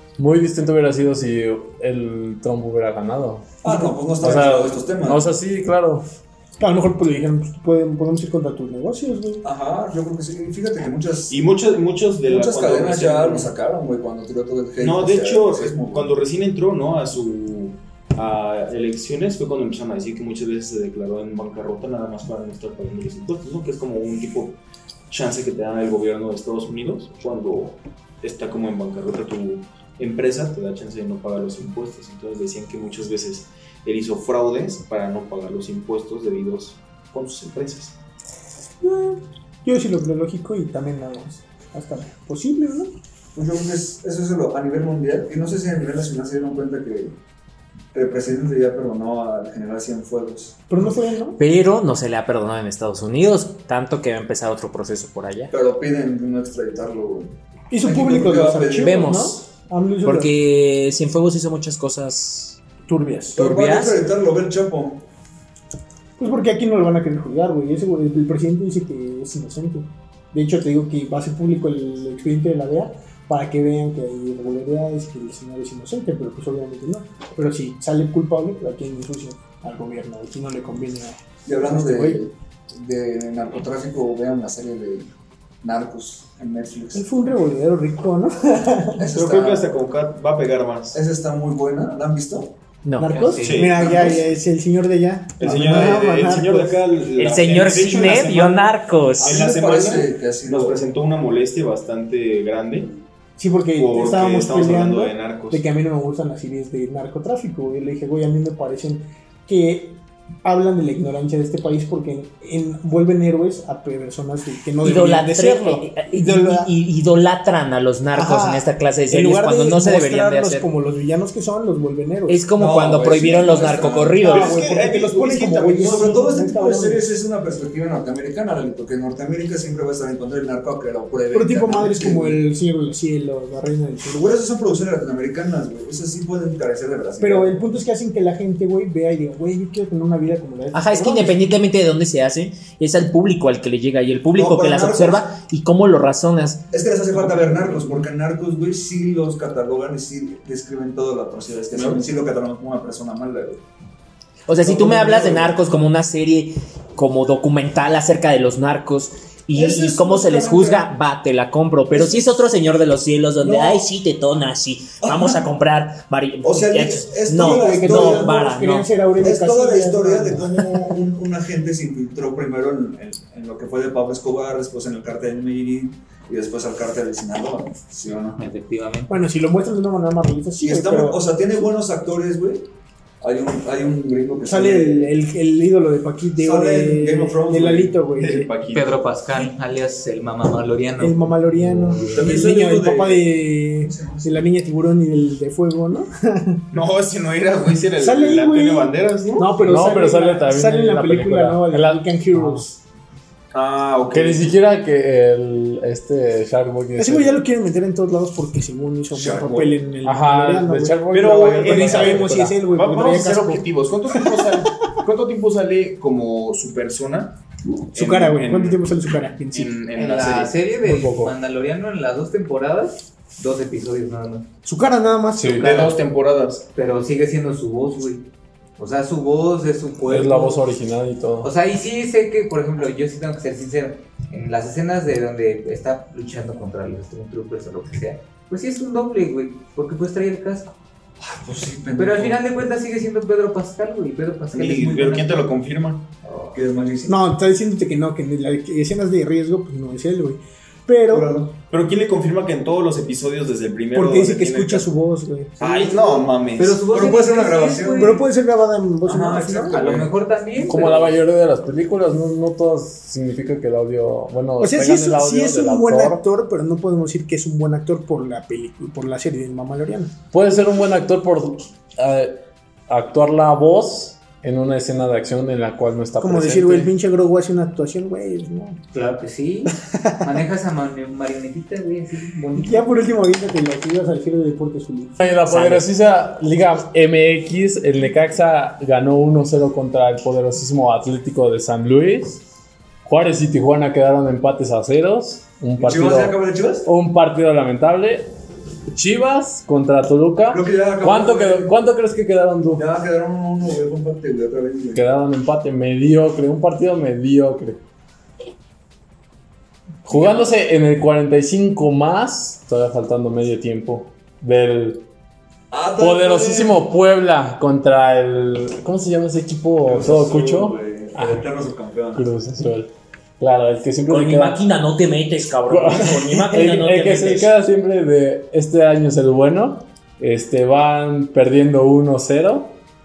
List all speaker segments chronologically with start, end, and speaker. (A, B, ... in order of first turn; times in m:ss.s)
0:00.2-0:03.6 A
0:03.6-0:05.3 B
0:03.6-0:03.9 C
0:04.2-0:06.0 A
0:06.6-0:09.4 C
0:09.4-0:11.4 B
0:11.3-0:13.5 D
0:12.2-0:16.2 B
0:14.8-0:38.0 D
0:38.8-0:42.9 C
0:43.3-0:47.2 B
0:47.9-0:50.6 B
0:50.7-0:51.4 C
0:51.4-0:55.5 E
0:55.5-0:59.2 B
0:57.7-1:00.3 C
0:58.8-0:59.4 E
1:00.0-1:02.6 E
1:02.9-1:03.5 C
1:03.4-1:04.0 E
1:03.4-1:05.0 B
1:06.2-1:22.2 C
1:21.4-1:25.1 B
1:25.6-1:27.1 B
1:26.9-1:29.0 C
1:29.0-1:29.7 B
1:29.1-1:31.0 D
1:30.9-1:32.5 B
1:32.8-1:33.2 E
1:33.0-1:36.8 C
1:33.0-1:33.7 F
1:33.4-1:34.2 D
1:35.4-1:43.0 D
1:37.2-1:39.4 E
1:39.2-1:40.8 B
1:43.4-1:56.7 C
1:43.8-1:45.6 D
1:54.8-2:00.7 E
1:58.1-2:02.4 C
2:02.3-2:04.5 E
2:02.6-2:04.3 B
2:04.2-2:07.2 C
2:04.3-2:06.2 D
2:05.8-2:12.4 B
2:11.3-2:14.3 C
2:14.1-2:17.6 B
2:17.2-2:21.5 C
2:20.7-2:26.6 E
2:24.3-2:25.3 B
2:26.7-2:33.6 B
2:31.7-2:32.1 D
2:34.5-2:48.9 E
2:34.6-2:35.5 B
2:39.5-2:40.9 B
2:43.4-2:43.8 B
2:45.0-2:45.4 B
2:46.4-2:48.4 B
2:47.3-2:51.0 C
2:49.2-2:58.4 B
2:58.2-2:59.1 F
2:59.1-3:01.3 C
3:00.6-3:02.6 B
3:03.2-3:05.1 B
3:04.4-3:08.5 C
3:06.4-3:08.0 B
3:08.1-3:09.0 D
3:08.6-3:12.1 F
3:11.0-3:16.6 C
3:12.1-3:14.5 B
3:16.7-3:19.5 D
3:18.0-3:22.8 C
3:19.6-3:22.6 A
3:23.5-3:24.5 D
3:24.1-3:27.4 A
3:27.0-3:34.7 C
3:29.1-3:29.8 B
3:30.0-3:32.6 A
3:31.1-3:37.4 D
3:37.9-3:38.8 D
3:37.9-3:39.8 C
3:39.5-3:40.6 D
3:39.9-3:44.5 F
3:40.8-3:41.3 A
3:44.6-3:45.7 C
3:45.4-3:45.9 A
3:45.5-3:46.6 D
3:46.7-3:48.3 F
3:48.8-3:50.6 F
3:50.0-3:51.5 A
3:51.4-4:00.7 F
4:01.2-4:02.4 B
4:02.0-4:05.5 F
4:04.5-4:06.1 D
4:06.5-4:07.2 B
4:07.0-4:11.3 C
4:11.1-4:11.6 B
4:11.7-4:14.9 D
4:13.9-4:15.7 C
4:15.6-4:16.8 D
4:15.7-4:18.2 F
4:16.8-4:18.2 B
4:18.0-4:19.8 C
4:19.0-4:20.1 B
4:19.7-4:21.2 F
4:20.6-4:26.2 A
4:24.6-4:30.1 C
4:30.3-4:36.9 A
4:36.2-4:38.8 C
4:38.9-4:42.9 F
4:39.8-4:40.4 C
4:42.5-4:45.2 C
4:45.2-4:52.4 A
4:45.4-4:45.9 E
4:53.0-4:58.3 A
4:55.8-4:56.9 B
4:58.9-5:02.8 A
5:00.5-5:01.8 B
5:02.8-5:05.0 B
5:05.0-5:07.8 A
5:10.0-5:15.0 A
5:10.1-5:10.5 B
5:15.7-5:16.8 B
5:16.0-5:21.4 A
5:19.8-5:22.2 B
5:22.2-5:24.6 A
5:24.1-5:27.5 E
5:25.7-5:32.8 A